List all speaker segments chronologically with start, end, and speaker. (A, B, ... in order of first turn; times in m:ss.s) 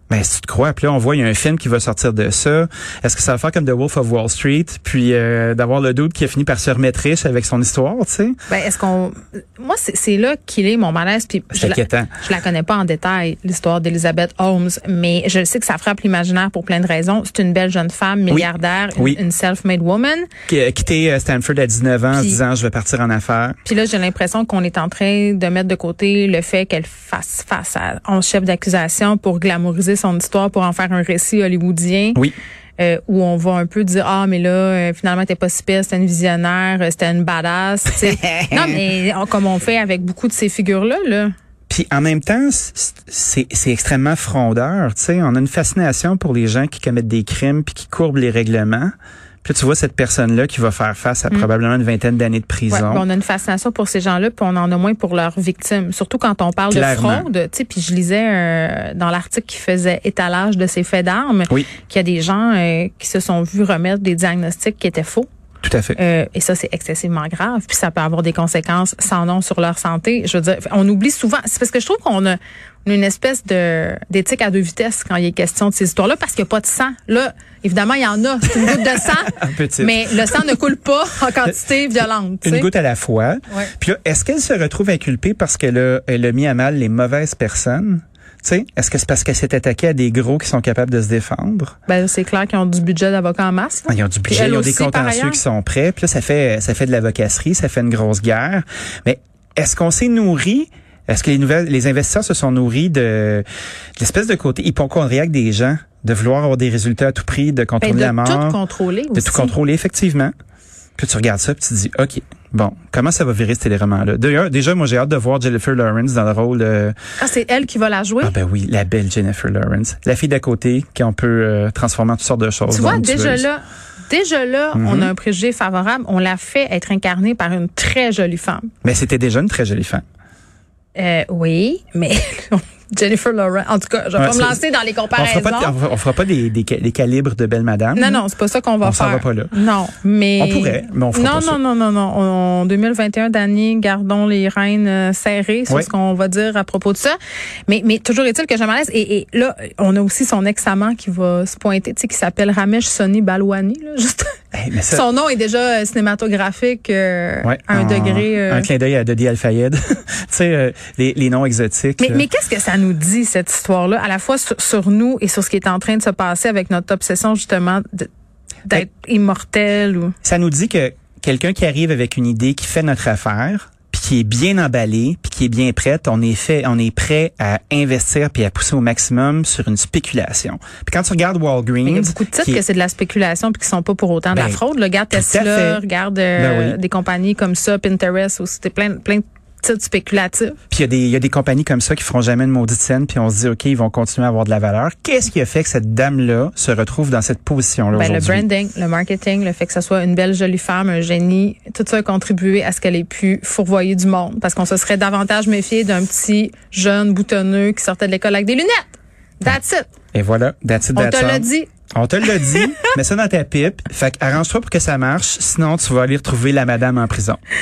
0:00.1-0:08.4 A
0:08.5-0:20.3 B
0:11.5-0:12.1 A
0:18.3-0:19.2 A
0:20.5-0:23.6 A
0:22.1-0:22.4 B
0:23.6-0:32.2 B
0:32.8-0:41.3 B
0:41.7-0:48.9 A
0:49.4-0:53.1 A
0:52.7-1:05.3 B
0:56.7-0:57.3 A
1:05.6-1:06.0 A
1:06.0-1:22.7 B
1:19.3-1:20.1 A
1:22.4-1:31.7 A
1:31.9-1:35.4 B
1:33.9-1:43.4 A
1:44.0-1:48.6 A
1:47.8-1:49.6 B
1:49.2-1:50.3 A
1:51.0-1:57.0 A
1:57.2-1:58.4 B
1:58.2-2:03.4 A
2:02.7-2:08.7 B
2:04.7-2:05.1 A
2:08.8-2:10.0 A
2:11.0-2:15.8 B
2:14.2-2:14.6 A
2:15.2-2:18.2 A
2:18.0-2:34.3 B
2:18.8-2:19.5 A
2:20.4-2:21.6 A
2:34.5-2:35.0 A
2:34.9-2:38.7 B
2:37.4-2:42.2 A
2:42.0-2:48.1 B
2:48.7-2:50.2 B
2:50.2-3:02.6 A
3:01.8-3:10.6 B
3:04.3-3:04.6 A
3:05.1-3:05.8 A
3:06.4-3:06.8 A
3:10.7-3:18.4 A
3:17.9-3:28.9 B
3:29.4-3:29.9 B
3:30.1-3:37.4 A
3:31.0-3:31.7 B